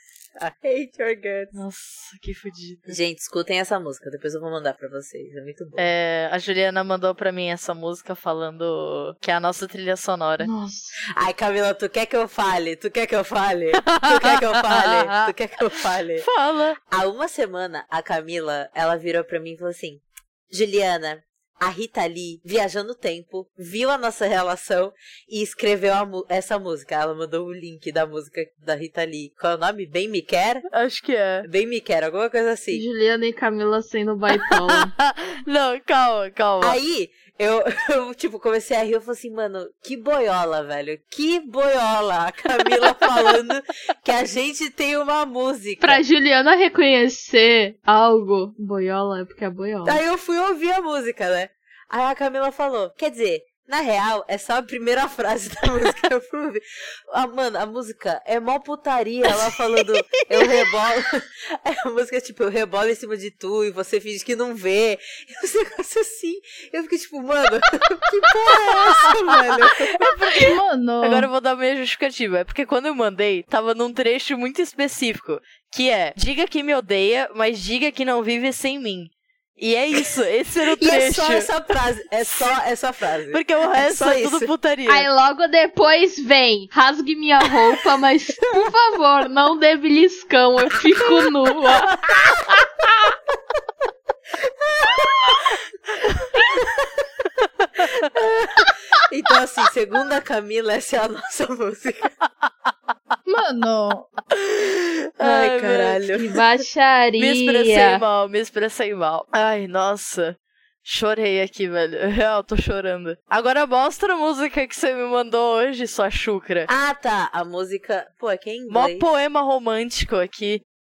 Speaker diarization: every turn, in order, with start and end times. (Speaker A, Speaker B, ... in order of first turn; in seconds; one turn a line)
Speaker A: 0.4-1.6
Speaker B: 1.5-3.0
Speaker A: 2.9-5.9
Speaker B: 5.8-10.5
Speaker C: 10.4-11.0
Speaker A: 11.0-16.2
Speaker B: 13.8-15.3
Speaker B: 16.2-16.8
Speaker A: 16.9-30.6
Speaker B: 30.7-31.5
Speaker A: 31.4-32.8
Speaker C: 32.7-34.9
Speaker B: 34.8-36.8
Speaker A: 36.6-46.0
Speaker C: 45.8-50.0
Speaker A: 49.8-70.1
Speaker B: 60.1-60.4
Speaker D: 70.0-71.3
Speaker B: 71.0-81.5
Speaker A: 80.7-84.5
Speaker B: 83.3-85.1
Speaker C: 84.9-92.0
Speaker A: 92.1-92.4
Speaker A: 94.6-95.5
Speaker A: 96.3-97.1
Speaker A: 97.8-102.1
Speaker D: 103.2-104.1
Speaker B: 104.3-106.0
Speaker A: 105.2-106.2
Speaker C: 106.1-108.0
Speaker B: 107.2-116.7
Speaker A: 116.7-119.0
Speaker B: 118.7-120.6